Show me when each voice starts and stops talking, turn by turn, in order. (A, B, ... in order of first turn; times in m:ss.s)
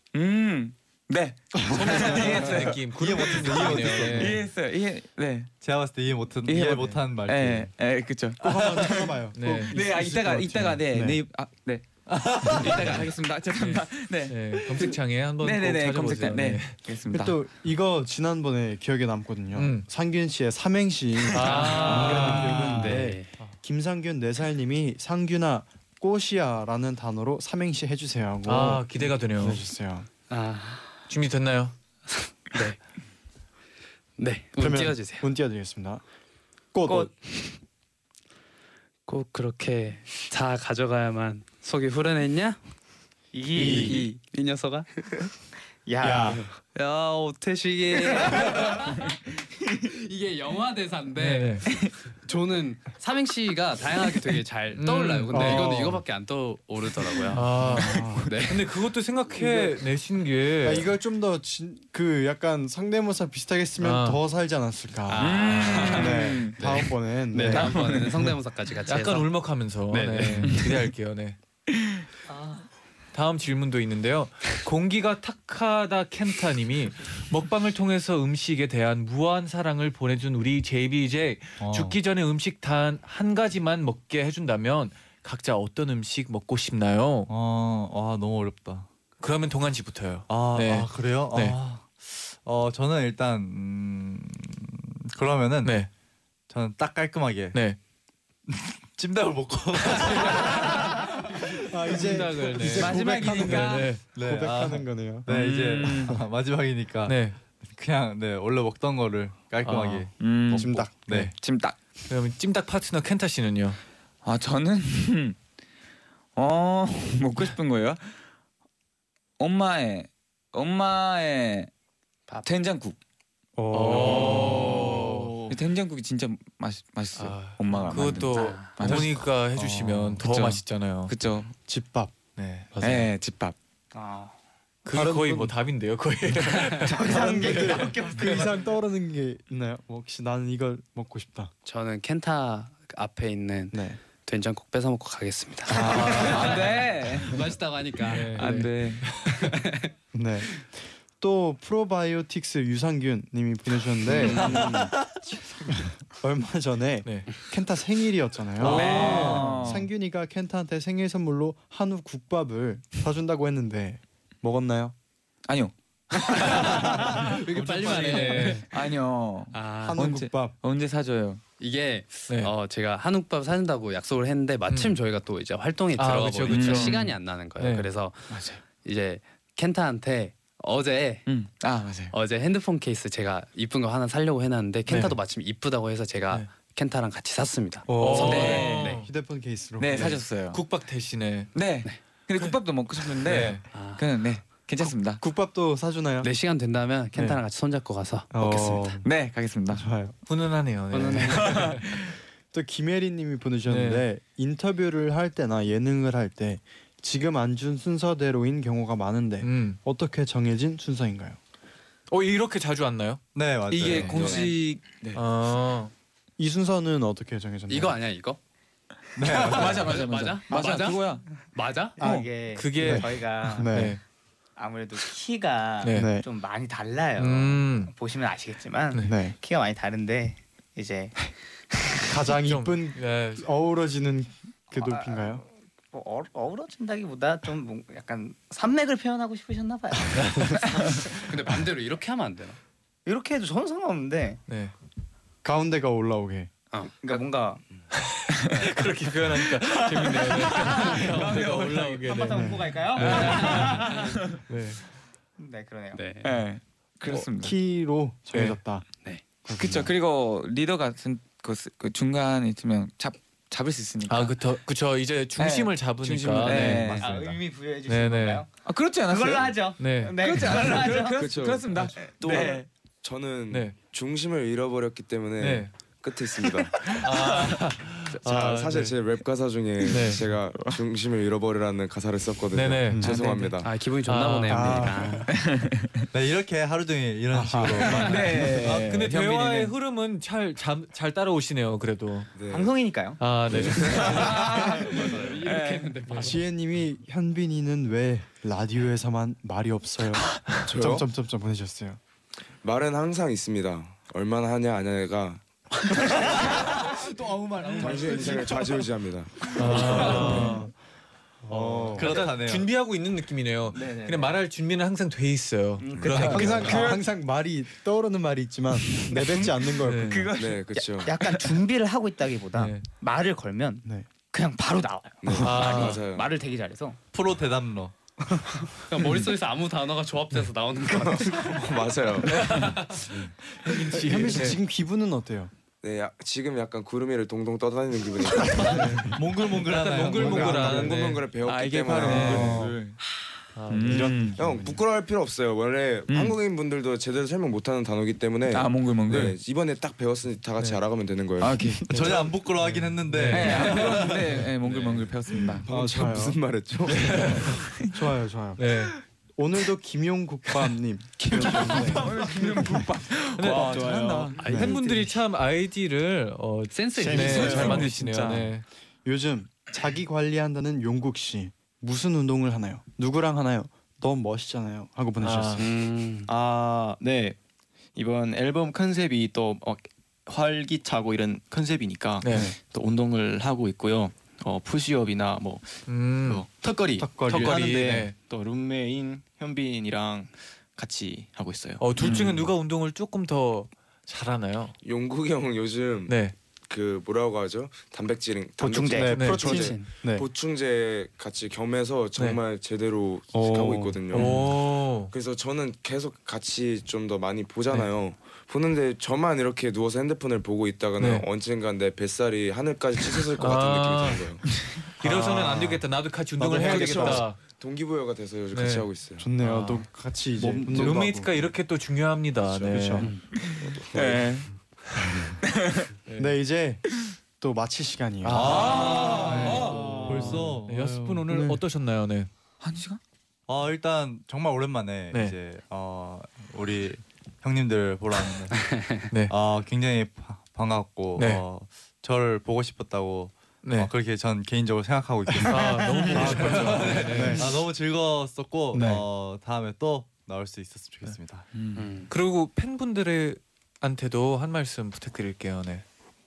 0:00.1-0:05.5 A
0:01.7-0:04.4 B
0:02.9-0:04.4 C
0:03.9-0:04.4 D
0:05.6-0:07.7 C
0:06.4-0:09.1 A
0:08.4-0:11.2 E
0:08.5-0:09.0 C
0:09.3-0:09.8 B
0:09.7-0:17.4 A
0:12.1-0:13.1 C
0:13.5-0:16.8 B
0:17.1-0:30.1 E
0:19.5-0:19.9 B
0:21.3-0:23.6 B
0:21.4-0:23.4 D
0:21.5-0:22.3 A
0:28.4-0:29.6 B
0:30.3-0:31.0 D
0:31.1-0:31.8 B
0:32.1-0:32.8 D
0:34.2-0:35.3 D
0:34.6-0:36.0 E
0:36.7-0:37.1 E
0:37.1-0:37.5 D
0:39.1-0:42.6 D
0:43.3-0:44.1 F
0:43.6-0:44.2 A
0:43.6-0:43.9 E
0:43.6-0:44.9 D
0:45.9-0:46.5 F
0:46.0-0:46.4 E
0:46.3-0:58.7 D
0:51.2-0:51.6 B
0:54.7-0:55.7 B
0:55.3-0:56.0 E
0:57.3-1:00.9 B
0:57.3-0:58.4 E
0:59.4-0:59.7 E
1:00.6-1:08.3 E
1:03.8-1:04.2 B
1:05.1-1:09.4 D
1:05.2-1:06.6 A
1:07.5-1:08.3 A
1:08.9-1:11.4 B
1:09.9-1:10.6 D
1:12.3-1:12.6 F
1:13.1-1:27.3 B
1:21.6-1:22.0 C
1:27.3-1:28.9 C
1:29.2-1:31.6 B
1:30.3-1:35.8 C
1:35.6-1:35.9 B
1:36.5-1:37.6 C
1:38.5-1:40.7 C
1:39.9-1:40.9 B
1:41.6-1:45.3 E
1:41.9-1:44.0 B
1:42.5-1:43.9 A
1:44.1-1:51.3 C
1:45.3-1:46.2 A
1:47.1-1:47.4 B
1:49.6-1:50.1 B
1:50.2-1:51.8 A
1:50.5-1:50.9 E
1:52.1-1:53.8 B
1:54.2-1:55.4 A
1:56.4-1:58.2 A
1:59.4-2:01.7 A
2:02.4-2:03.0 A
2:03.6-2:05.0 E
2:03.7-2:05.3 B
2:03.9-2:09.3 A
2:04.0-2:04.4 G
2:04.4-2:05.1 D
2:04.9-2:05.6 G
2:07.1-2:11.1 B
2:07.9-2:08.8 D
2:08.9-2:10.2 C
2:10.2-2:11.5 A
2:11.7-2:12.2 E
2:12.4-2:13.1 B
2:12.8-2:13.6 A
2:13.9-2:14.3 F
2:14.8-2:18.5 B
2:14.9-2:15.6 E
2:16.4-2:21.5 E
2:16.8-2:18.5 F
2:21.6-2:28.7 D
2:23.7-2:24.0 E
2:25.7-2:26.7 B
2:25.7-2:27.5 A
2:28.0-2:29.6 B
2:28.0-2:29.1 A
2:29.2-2:29.9 D
2:30.1-2:34.7 E
2:34.1-2:35.0 D
2:34.2-2:35.2 C
2:35.7-2:44.9 E
2:38.6-2:39.5 B
2:38.6-2:39.9 A
2:38.7-2:39.7 D
2:39.2-2:39.4 C
2:45.5-2:47.2 A
2:46.5-2:48.7 D
2:46.9-2:48.6 C
2:47.6-2:48.7 B
2:47.9-2:51.4 A
2:49.5-2:50.1 D
2:49.8-2:50.6 E
2:51.6-3:01.3 D
2:54.7-2:55.0 B
2:56.0-2:57.9 B
2:56.5-2:57.0 A
3:01.3-3:02.2 A
3:02.1-3:09.1 D
3:04.9-3:05.2 B
3:07.9-3:10.3 E
3:08.0-3:09.1 B
3:08.1-3:09.0 A
3:09.8-3:10.6 A
3:10.5-3:11.6 B
3:11.6-3:15.2 A
3:12.3-3:13.6 B
3:13.6-3:14.1 D
3:14.9-3:16.3 E
3:16.2-3:19.0 D
3:18.3-3:19.0 E
3:19.0-3:19.9 A
3:19.7-3:20.2 E
3:20.3-3:21.9 B
3:20.9-3:21.8 D
3:21.2-3:22.2 A
3:22.5-3:31.4 E
3:23.7-3:24.0 B
3:29.4-3:29.8 B
3:32.1-3:33.2 B
3:33.4-3:34.3 C
3:33.7-3:35.2 A
3:33.9-3:34.6 B
3:34.1-3:34.5 H
3:35.1-3:35.9 B
3:36.4-3:38.0 E
3:37.7-3:38.4 D
3:39.2-3:40.0 C
3:39.3-3:42.0 D
3:39.3-3:41.2 A
3:42.0-3:43.8 F
3:42.0-3:44.0 E
3:42.0-3:44.0 B
3:44.6-3:51.3 F
3:45.8-3:46.1 B
3:45.9-3:46.3 E
3:47.2-3:47.9 B
3:49.0-3:49.4 E
3:52.0-3:55.4 E
3:52.4-3:53.5 B
3:54.7-4:00.4 F
4:00.1-4:00.5 B
4:00.4-4:00.6 E
4:01.0-4:02.6 D
4:03.1-4:04.4 F
4:04.5-4:04.7 B
4:05.4-4:06.5 E
4:07.0-4:07.6 F
4:07.9-4:14.8 B
4:08.4-4:08.6 A
4:09.4-4:12.2 A
4:10.6-4:11.1 D
4:12.0-4:14.0 F
4:12.3-4:12.8 E
4:13.0-4:14.4 A
4:13.2-4:13.9 D
4:15.4-4:16.0 F
4:15.9-4:16.4 D
4:16.2-4:17.6 A
4:17.3-4:19.9 E
4:18.3-4:18.6 B
4:19.0-4:19.4 D
4:19.6-4:24.4 A
4:24.1-4:27.0 B
4:25.4-4:27.2 A
4:26.5-4:27.3 E
4:26.6-4:28.5 F
4:26.8-4:27.3 C
4:27.9-4:28.4 B
4:28.6-4:32.7 A
4:29.0-4:31.5 F
4:29.8-4:30.2 B
4:31.2-4:37.1 H
4:33.5-4:33.8 B
4:35.4-4:35.7 B
4:36.8-4:37.6 A
4:36.8-4:39.0 B
4:38.1-4:43.7 H
4:39.8-4:40.2 B
4:39.8-4:40.8 A
4:42.5-4:44.9 B
4:43.6-4:45.3 D
4:44.5-4:45.3 E
4:45.3-4:46.1 A
4:46.1-4:48.7 C
4:47.3-4:48.3 E
4:47.8-4:49.7 A
4:47.9-4:52.3 B
4:52.4-4:52.7 H
4:52.5-4:54.0 F
4:53.2-4:54.4 B
4:53.5-4:54.4 H
4:53.7-4:56.0 A
4:54.1-4:56.4 D
4:56.1-4:56.3 B
4:56.2-5:02.0 E
5:00.7-5:01.1 H
5:02.6-5:06.3 H
5:06.4-5:08.7 C
5:07.8-5:09.6 H
5:09.5-5:10.7 B
5:09.6-5:10.4 A
5:09.7-5:10.7 C
5:09.7-5:10.7 E
5:09.9-5:10.3 D
5:11.5-5:12.2 E
5:11.5-5:12.7 C
5:12.0-5:16.9 B
5:13.8-5:14.1 A
5:15.8-5:16.1 F
5:16.0-5:16.8 H
5:16.1-5:20.3 E
5:16.1-5:17.0 A
5:19.0-5:21.6 A
5:19.8-5:20.3 B
5:20.4-5:21.1 H
5:20.8-5:27.0 F
5:22.5-5:22.8 B
5:25.2-5:26.3 H
5:25.4-5:26.0 B
5:27.1-5:27.9 C
5:28.9-5:31.9 D
5:30.9-5:33.3 H
5:32.2-5:34.6 B
5:32.3-5:32.9 A
5:34.0-5:35.5 E
5:35.8-5:39.0 H
5:38.5-5:39.2 E
5:38.6-5:41.3 B
5:39.1-5:40.9 C
5:40.1-5:42.7 H
5:40.2-5:43.0 A
5:42.0-5:42.7 B
5:42.2-5:42.8 C
5:43.6-5:44.3 B
5:43.7-5:44.4 A
5:43.9-5:44.8 E
5:44.4-5:51.8 H
5:46.1-5:46.4 A
5:48.5-5:49.4 A
5:51.4-5:52.3 A
5:51.9-5:54.5 C
5:51.9-5:54.1 B
5:53.3-5:55.7 A
5:55.6-5:57.4 H
5:55.7-5:56.4 E
5:56.9-5:57.6 B
5:57.1-5:58.7 E
5:57.4-5:58.0 A
5:58.6-5:59.0 B
5:59.4-6:02.9 E
6:01.3-6:04.7 A
6:03.4-6:08.6 B
6:03.4-6:04.4 G
6:04.4-6:05.2 D
6:04.5-6:04.8 E
6:06.7-6:08.0 D
6:07.0-6:08.5 A
6:09.0-6:15.6 E
6:15.2-6:15.6 B
6:15.6-6:16.3 D
6:16.3-6:17.4 G
6:18.0-6:32.1 G
6:22.2-6:22.5 B
6:22.3-6:22.6 E
6:25.9-6:26.5 B
6:27.0-6:28.0 E
6:27.2-6:28.2 B
6:31.8-6:34.8 B
6:32.0-6:32.5 A
6:34.8-6:36.2 H
6:36.1-6:36.4 B
6:36.7-6:54.4 H
6:38.6-6:39.2 F
6:38.8-6:40.3 E
6:39.1-6:39.7 B
6:39.4-6:39.9 D
6:43.3-6:44.4 E
6:44.1-6:45.1 B
6:51.0-6:51.3 B
6:53.4-6:57.4 B
6:55.0-6:55.9 E
6:56.4-6:57.3 E
6:56.5-6:59.3 H
6:58.5-6:58.9 B
6:59.2-7:01.3 E
6:59.4-6:59.8 B
6:59.4-6:59.8 D
7:00.4-7:01.0 G
7:00.7-7:03.7 B
7:02.5-7:02.9 H
7:02.5-7:03.1 E
7:03.3-7:04.5 A
7:03.6-7:04.2 H
7:05.4-7:05.9 A
7:06.1-7:06.3 B
7:06.2-7:08.7 E
7:08.2-7:12.3 B
7:08.3-7:11.2 C
7:08.3-7:09.9 A
7:09.6-7:10.4 E
7:09.7-7:10.3 D
7:11.2-7:11.6 E
7:12.6-7:13.0 A
7:13.5-7:31.5 C
7:18.6-7:19.0 D
7:21.2-7:21.4 B
7:23.6-7:23.9 B
7:25.3-7:27.6 E
7:25.5-7:27.5 B
7:28.7-7:29.0 E
7:31.5-7:31.9 A
7:31.8-7:32.1 D
7:32.1-7:35.8 B